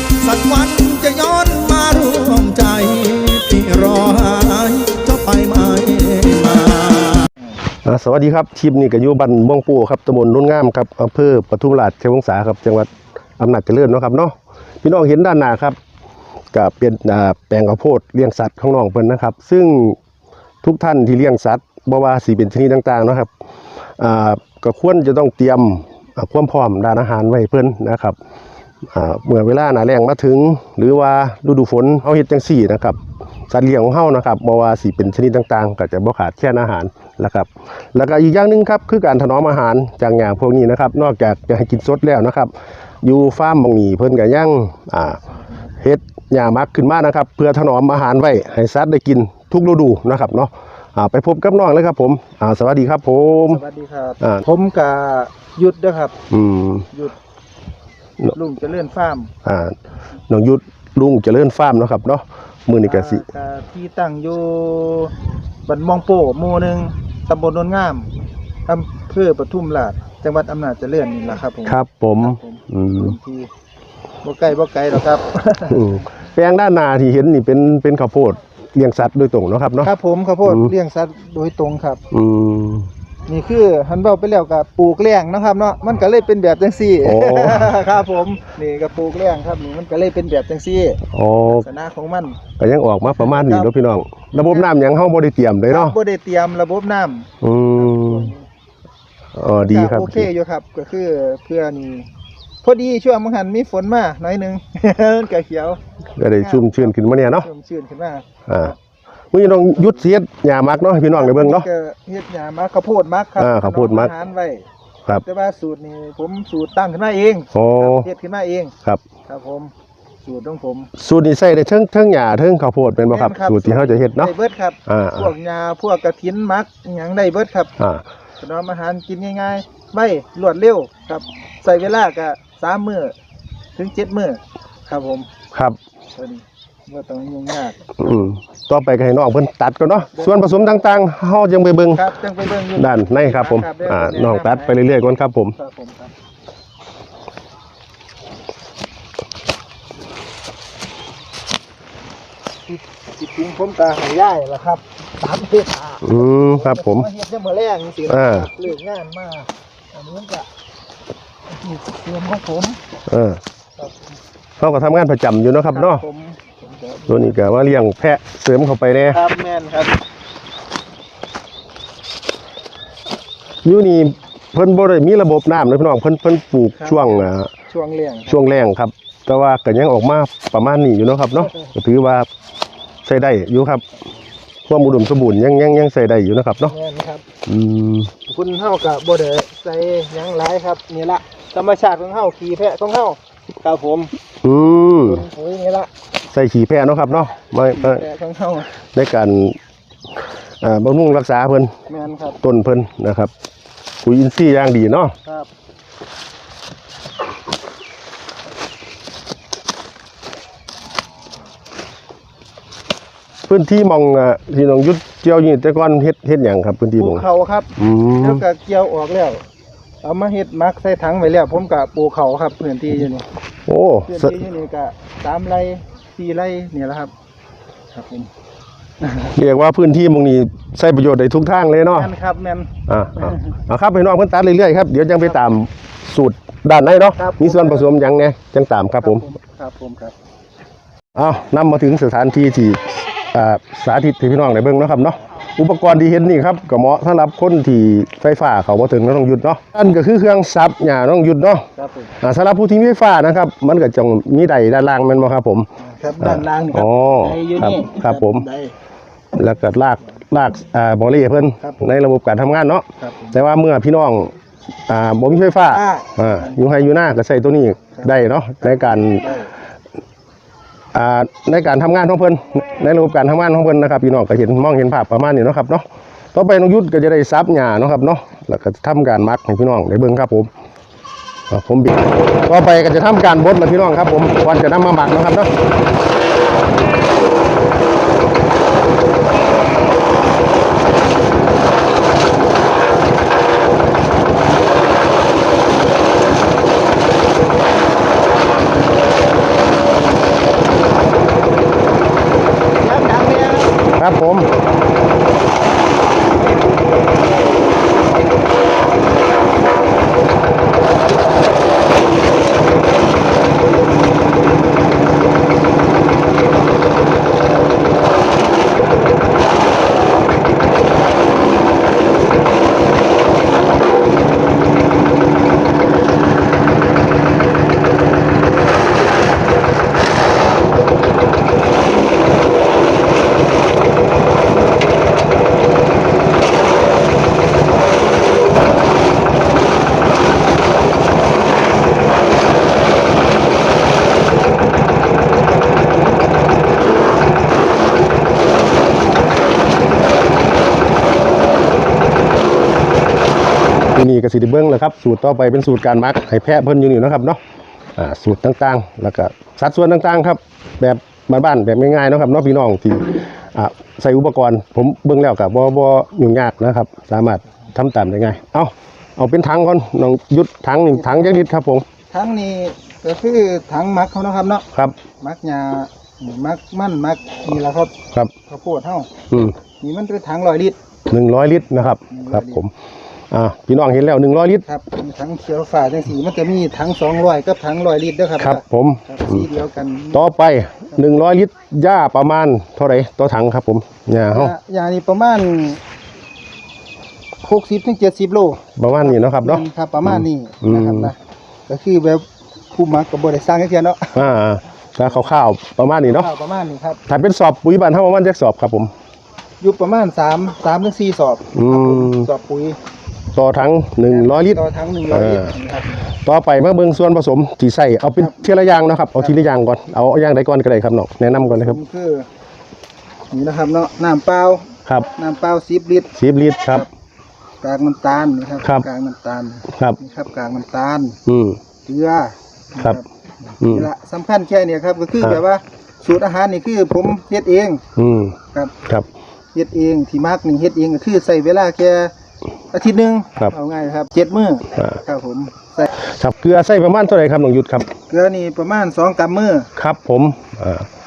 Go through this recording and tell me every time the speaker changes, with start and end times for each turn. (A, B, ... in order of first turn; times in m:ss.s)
0:00.2-0:07.3 A
0:07.8-0:15.8 B
0:16.5-0:20.0 B
0:20.6-0:23.3 B
0:24.0-0:28.2 B
0:28.9-0:33.0 B
0:33.5-0:42.5 B
0:43.0-0:45.2 B
0:45.8-0:53.6 B
0:53.3-0:56.2 C
0:56.3-0:56.9 B
0:58.3-0:59.3 C
0:59.4-0:59.8 B
1:00.3-1:03.2 B
1:02.8-1:05.1 C
1:05.7-1:08.1 C
1:08.7-1:13.5 C
1:11.6-1:13.2 B
1:14.2-1:16.0 C
1:15.7-1:19.9 B
1:19.8-1:22.0 C
1:20.4-1:20.7 B
1:22.1-1:22.9 B
1:23.3-1:32.4 C
1:27.0-1:27.9 B
1:31.1-1:31.6 B
1:32.6-1:36.0 B
1:33.2-1:33.7 C
1:34.4-1:34.7 C
1:35.7-1:38.5 C
1:37.4-1:38.3 B
1:39.4-1:40.3 B
1:39.7-1:42.1 C
1:42.6-1:48.8 C
1:46.2-1:47.5 B
1:48.5-1:48.7 B
1:49.3-1:51.7 B
1:49.8-1:50.1 C
1:51.1-1:54.7 C
1:53.4-1:54.1 B
1:55.2-1:58.7 C
1:57.5-1:58.1 B
1:59.3-1:59.7 C
2:00.2-2:00.9 C
2:01.0-2:04.3 B
2:03.1-2:07.7 C
2:04.9-2:05.3 B
2:08.4-2:13.2 C
2:13.8-2:15.3 C
2:16.1-2:18.3 C
2:18.0-2:22.1 B
2:21.9-2:24.9 C
2:22.8-2:25.6 B
2:25.6-2:26.1 C
2:32.7-2:40.5 C
2:36.0-2:37.1 B
2:38.1-2:38.5 B
2:41.5-2:42.8 C
2:43.1-2:43.4 B
2:44.6-2:46.0 B
2:45.7-2:47.4 C
2:47.1-2:49.2 B
2:49.1-2:50.0 C
2:53.6-2:57.5 B
2:56.8-2:58.4 C
2:58.3-3:02.3 B
3:03.0-3:03.8 B
3:04.7-3:06.8 B
3:06.6-3:07.2 C
3:07.5-3:08.1 B
3:08.3-3:14.1 C
3:14.4-3:15.2 B
3:15.0-3:15.9 C
3:16.3-3:18.0 B
3:17.8-3:18.7 C
3:18.9-3:19.6 B
3:20.6-3:21.7 B
3:21.9-3:22.4 C
3:22.4-3:23.3 B
3:24.0-3:25.2 B
3:25.2-3:25.5 C
3:33.5-3:37.3 B
3:37.0-3:39.4 C
3:37.8-3:38.4 B
3:40.0-3:43.3 C
3:43.7-3:44.4 B
3:44.1-3:47.1 C
3:47.9-3:48.3 C
3:49.0-3:49.3 C
3:49.4-3:52.1 B
3:51.9-3:52.7 C
3:52.9-3:59.3 B
3:57.2-3:57.9 C
3:59.0-4:00.2 C
4:01.2-4:11.7 B
4:11.8-4:12.1 C
4:12.2-4:15.7 B
4:15.8-4:18.7 C
4:16.2-4:18.4 B
4:19.3-4:24.3 B
4:21.6-4:21.9 C
4:23.0-4:23.4 C
4:24.9-4:29.3 B
4:25.7-4:26.6 C
4:28.0-4:29.5 C
4:30.9-4:40.5 B
4:41.5-4:45.5 B
5:02.8-5:03.8 C
5:04.0-5:04.5 B
5:53.9-5:57.4 B
5:58.0-6:11.9 B
6:10.9-6:11.5 C
6:12.1-6:14.6 C
6:15.2-6:17.9 C
6:18.5-6:20.8 C
6:21.1-6:22.7 B
6:22.1-6:22.6 C
6:23.3-6:24.6 B
6:24.7-6:30.2 C
6:28.4-6:29.5 B
6:30.1-6:34.5 B
6:34.3-6:35.8 C
6:37.4-6:44.2 C
6:38.8-6:41.1 B
6:44.1-6:46.3 B
6:46.0-6:47.0 C
6:47.1-6:48.9 B
6:49.6-6:52.8 C
6:51.5-6:52.3 B
6:53.4-6:55.5 B
6:54.1-6:56.0 C
6:56.2-7:01.8 B
6:58.1-6:58.4 C
6:59.2-6:59.4 C
7:01.3-7:02.3 C
7:03.3-7:06.1 C
7:06.2-7:06.8 B
7:07.6-7:11.2 C
7:11.3-7:11.6 B
7:11.9-7:17.8 C
7:13.6-7:13.9 B
7:18.0-7:19.1 B
7:19.5-7:22.1 C
7:22.7-7:25.9 C
7:26.0-7:27.9 B
7:28.1-7:29.7 C
7:29.8-7:30.9 B